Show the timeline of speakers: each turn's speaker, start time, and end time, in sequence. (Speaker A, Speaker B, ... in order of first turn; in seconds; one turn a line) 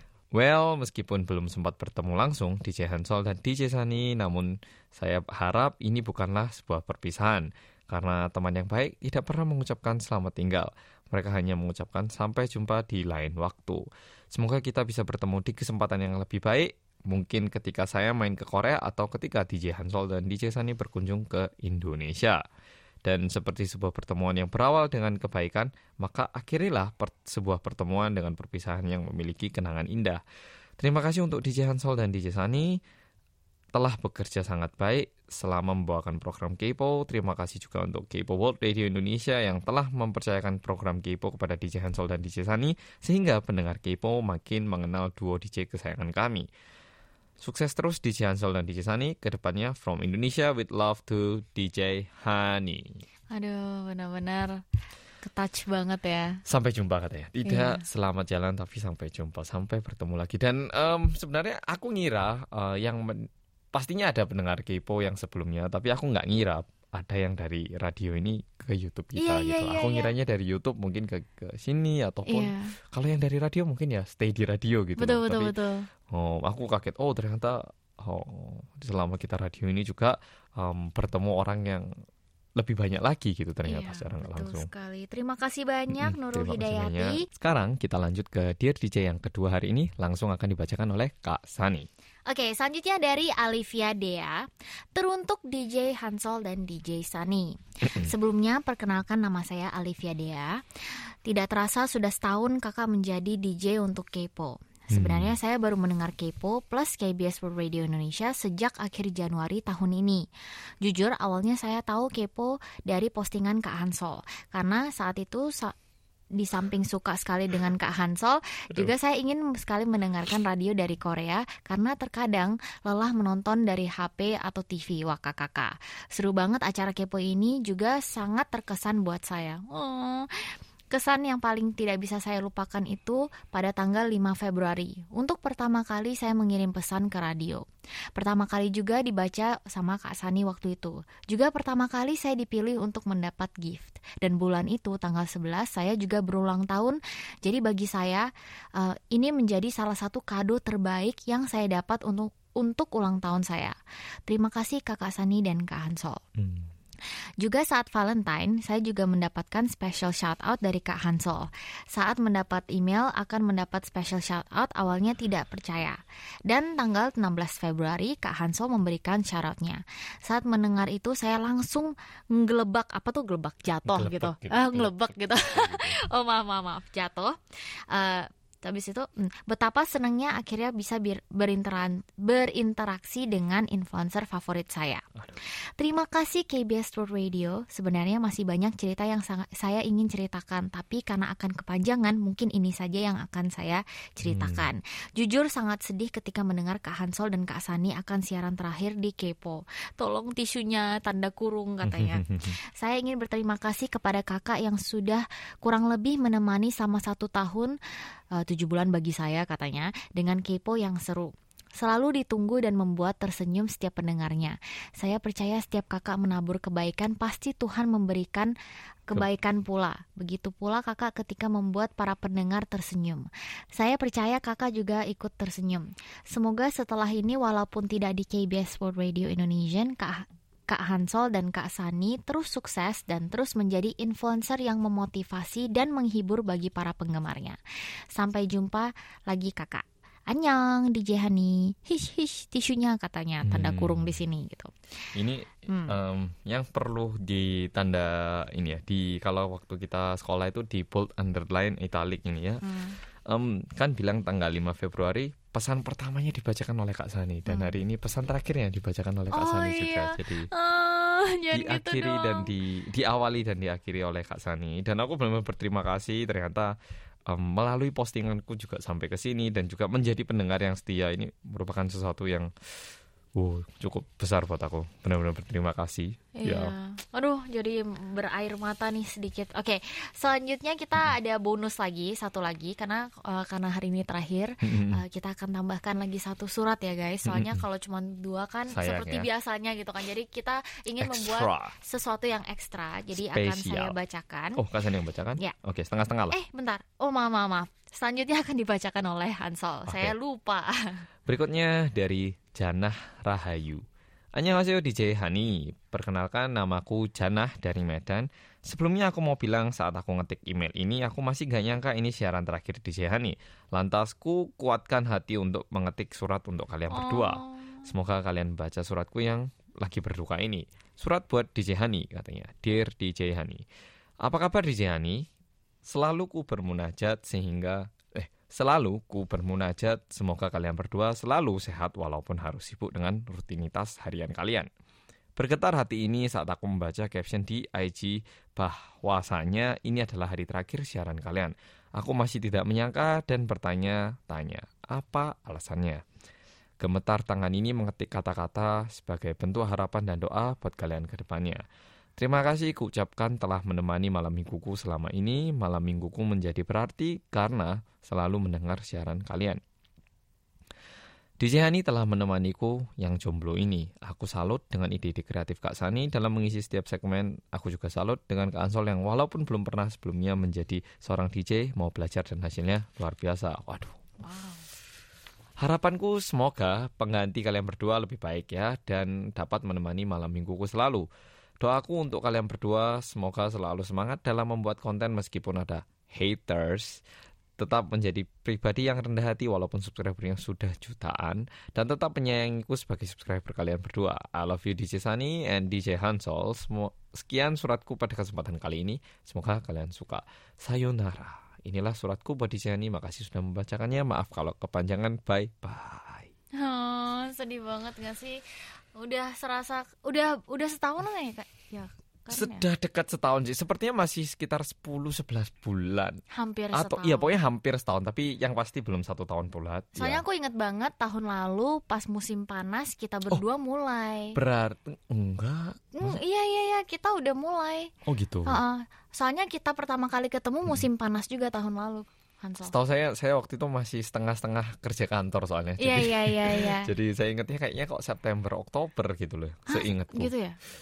Speaker A: 0.3-22.4
Speaker A: 23.0-30.2
Speaker A: 30.8-32.8
Speaker A: 33.7-46.5
Speaker A: 47.4-53.0
Speaker B: 53.3-54.6
Speaker B: 55.2-56.4
Speaker A: 56.5-75.5
Speaker B: 57.5-57.8
Speaker B: 69.2-70.1
Speaker B: 72.3-72.8
Speaker B: 75.0-75.9
Speaker A: 76.1-81.9
Speaker A: 82.6-84.7
Speaker B: 83.7-87.3
Speaker A: 85.9-91.9
Speaker B: 92.3-94.4
Speaker B: 95.0-100.5
Speaker A: 97.8-98.1
Speaker B: 101.3-110.2
Speaker A: 104.9-105.3
Speaker B: 110.8-115.7
Speaker B: 116.4-137.6
Speaker B: 138.2-153.8
Speaker B: 154.3-156.2
Speaker A: 156.4-156.7
Speaker B: 157.4-207.8
Speaker A: 173.8-176.1
Speaker A: 194.2-194.7
Speaker A: 201.8-202.6
Speaker B: 208.3-218.5
Speaker B: 219.1-237.6
Speaker B: 238.2-244.7
Speaker A: 243.4-244.2
Speaker A: 245.2-252.7
Speaker B: 245.7-246.0
Speaker B: 252.6-253.0
Speaker A: 253.3-260.5
Speaker B: 257.5-257.8
Speaker B: 259.3-262.5
Speaker A: 261.5-266.7
Speaker A: 267.3-272.5
Speaker A: 273.4-276.7
Speaker B: 276.4-294.6
Speaker A: 284.6-285.0
Speaker A: 287.3-287.6
Speaker A: 288.7-289.3
Speaker A: 291.0-291.7
Speaker A: 293.1-293.9
Speaker A: 294.6-296.4
Speaker B: 296.3-301.0
Speaker A: 299.9-300.1
Speaker A: 301.3-323.6
Speaker B: 316.9-317.9
Speaker A: 324.2-325.2
Speaker A: 325.9-334.7
Speaker A: 335.4-346.0
Speaker A: 346.8-351.6
Speaker A: 352.2-359.6
Speaker A: 361.4-374.0
Speaker B: 374.2-374.6
Speaker A: 375.6-381.1
Speaker A: 381.6-387.0
Speaker A: 387.6-406.3
Speaker B: 406.6-408.4
Speaker B: 409.0-412.7
Speaker A: 412.3-416.2
Speaker B: 416.3-417.4
Speaker A: 416.7-420.2
Speaker B: 420.0-424.4
Speaker A: 424.4-426.2
Speaker B: 425.9-427.9
Speaker A: 428.1-428.6
Speaker B: 428.5-432.7
Speaker A: 432.7-440.3
Speaker B: 435.8-436.9
Speaker B: 439.7-440.6